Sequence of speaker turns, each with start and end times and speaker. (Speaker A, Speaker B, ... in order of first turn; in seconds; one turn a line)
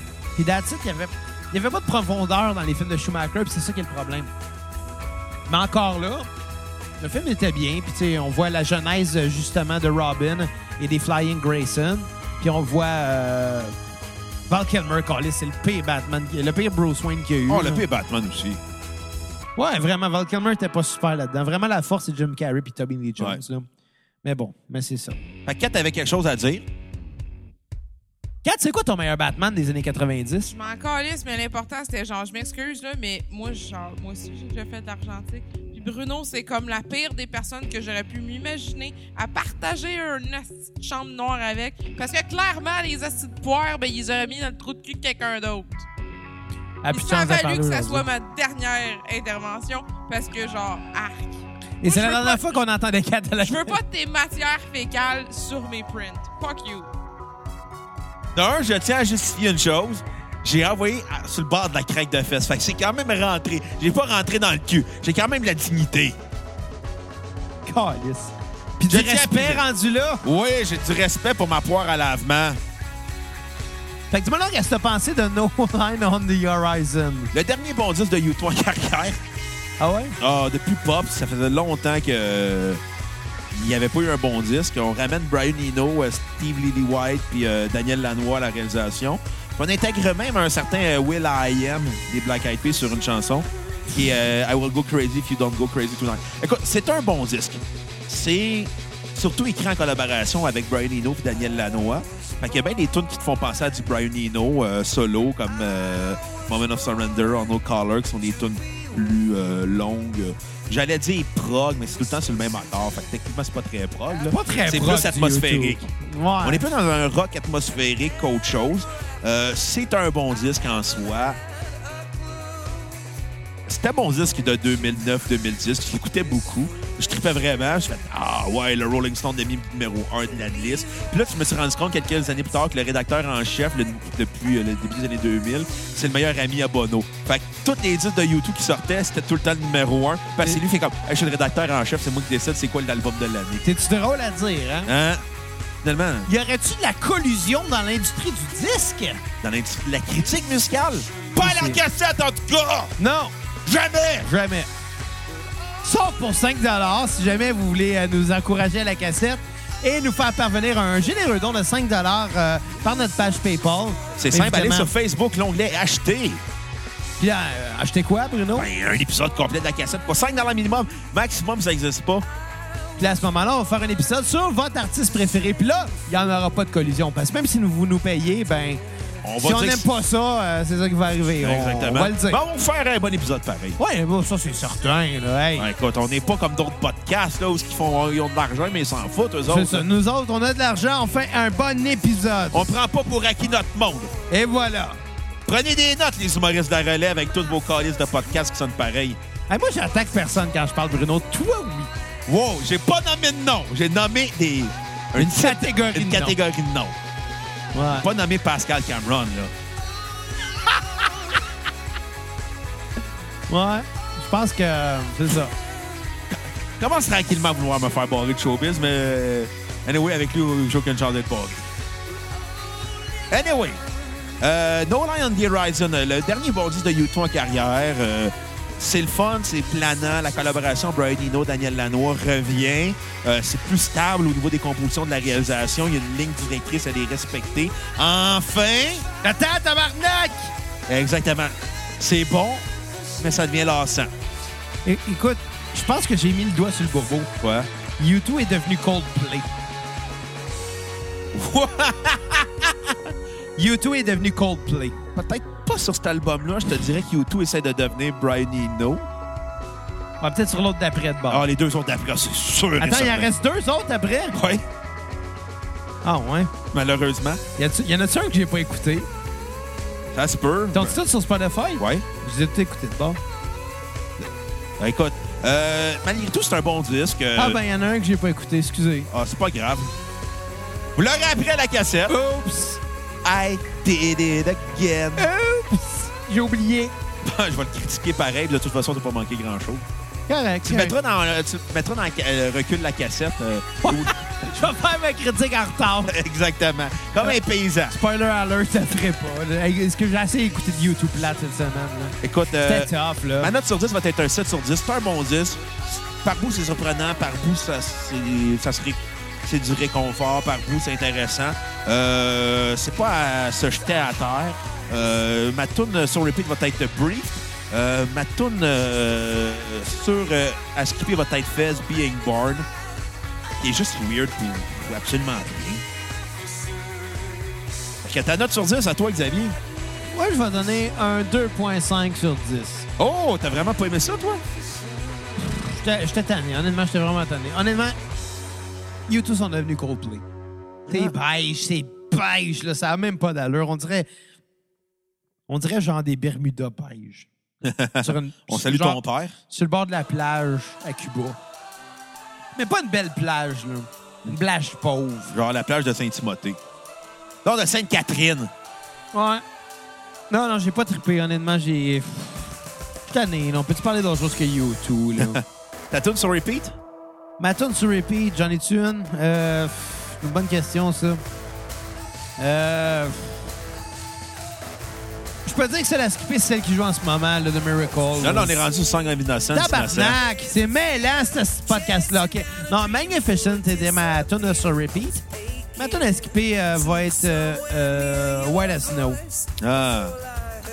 Speaker A: 0.4-4.3
Speaker A: 5.5-6.3
Speaker A: 7.0-13.8
Speaker A: 14.5-17.8
Speaker B: 17.5-18.6
Speaker A: 19.6-23.7
Speaker A: 24.2-25.2
Speaker B: 25.5-26.7
Speaker A: 28.4-30.5
Speaker C: 30.5-45.9
Speaker A: 46.8-48.0
Speaker C: 46.9-52.5
Speaker A: 51.8-53.8
Speaker C: 53.4-56.9
Speaker B: 58.4-66.2
Speaker A: 67.7-70.2
Speaker B: 68.9-69.6
Speaker B: 70.2-72.6
Speaker A: 74.1-77.3
Speaker B: 77.3-79.2
Speaker A: 79.8-80.2
Speaker B: 80.2-82.8
Speaker B: 83.5-115.9
Speaker A: 114.3-116.6
Speaker B: 116.4-121.4
Speaker B: 123.7-143.6
Speaker A: 143.6-144.9
Speaker B: 144.9-145.2
Speaker B: 145.8-146.3
Speaker A: 146.3-149.2
Speaker B: 149.4-152.9
Speaker A: 151.3-151.8
Speaker A: 153.0-153.3
Speaker B: 153.7-154.3
Speaker A: 154.2-154.7
Speaker A: 155.8-164.9
Speaker B: 164.2-166.4
Speaker A: 167.2-168.7
Speaker B: 168.6-172.3
Speaker A: 173.0-178.8
Speaker B: 179.2-179.9
Speaker A: 179.4-182.4
Speaker B: 181.4-183.8
Speaker A: 183.8-185.7
Speaker B: 185.6-189.9
Speaker A: 189.5-192.7
Speaker B: 192.5-194.1
Speaker A: 194.3-195.0
Speaker B: 195.5-199.2
Speaker A: 199.5-201.9
Speaker B: 202.3-207.0
Speaker A: 205.2-206.4
Speaker A: 207.7-208.1
Speaker B: 207.9-209.5
Speaker A: 213.5-215.5
Speaker B: 216.3-221.6
Speaker B: 223.3-223.8
Speaker B: 224.4-239.1
Speaker A: 239.2-240.5
Speaker B: 240.9-242.7
Speaker B: 243.2-244.1
Speaker A: 244.8-247.3
Speaker B: 247.4-247.7
Speaker A: 248.0-249.5
Speaker B: 251.3-252.7
Speaker A: 253.6-255.0
Speaker B: 255.1-259.1
Speaker A: 260.2-261.5
Speaker B: 261.3-263.3
Speaker A: 262.8-264.4
Speaker B: 264.3-264.7
Speaker A: 266.0-266.5
Speaker B: 266.7-267.4
Speaker A: 267.6-269.1
Speaker B: 270.1-271.0
Speaker A: 270.7-273.2
Speaker B: 271.8-272.1
Speaker B: 274.8-277.6
Speaker A: 277.4-279.1
Speaker B: 279.1-279.9
Speaker B: 280.9-282.1
Speaker A: 282.1-282.8
Speaker B: 283.2-285.3
Speaker A: 285.2-286.9
Speaker B: 287.2-289.9
Speaker A: 290.3-290.9
Speaker B: 290.6-294.3
Speaker A: 293.8-296.2
Speaker B: 296.1-297.9
Speaker A: 297.2-303.5
Speaker B: 302.2-322.7
Speaker B: 323.6-325.8
Speaker B: 328.0-329.6
Speaker A: 330.1-332.9
Speaker B: 333.0-334.4
Speaker A: 335.5-338.0
Speaker A: 339.1-340.2
Speaker B: 340.9-341.1
Speaker A: 340.9-344.1
Speaker A: 345.5-347.3
Speaker B: 347.6-349.4
Speaker A: 348.0-351.4
Speaker A: 352.6-355.3
Speaker B: 355.3-356.6
Speaker B: 357.4-358.5
Speaker A: 359.1-359.4
Speaker A: 360.3-362.6
Speaker A: 363.1-365.4
Speaker B: 365.2-366.8
Speaker A: 367.4-371.2
Speaker A: 372.4-373.4
Speaker A: 375.5-378.6
Speaker B: 378.2-380.2
Speaker A: 379.5-385.2
Speaker A: 385.8-389.2
Speaker B: 389.6-390.2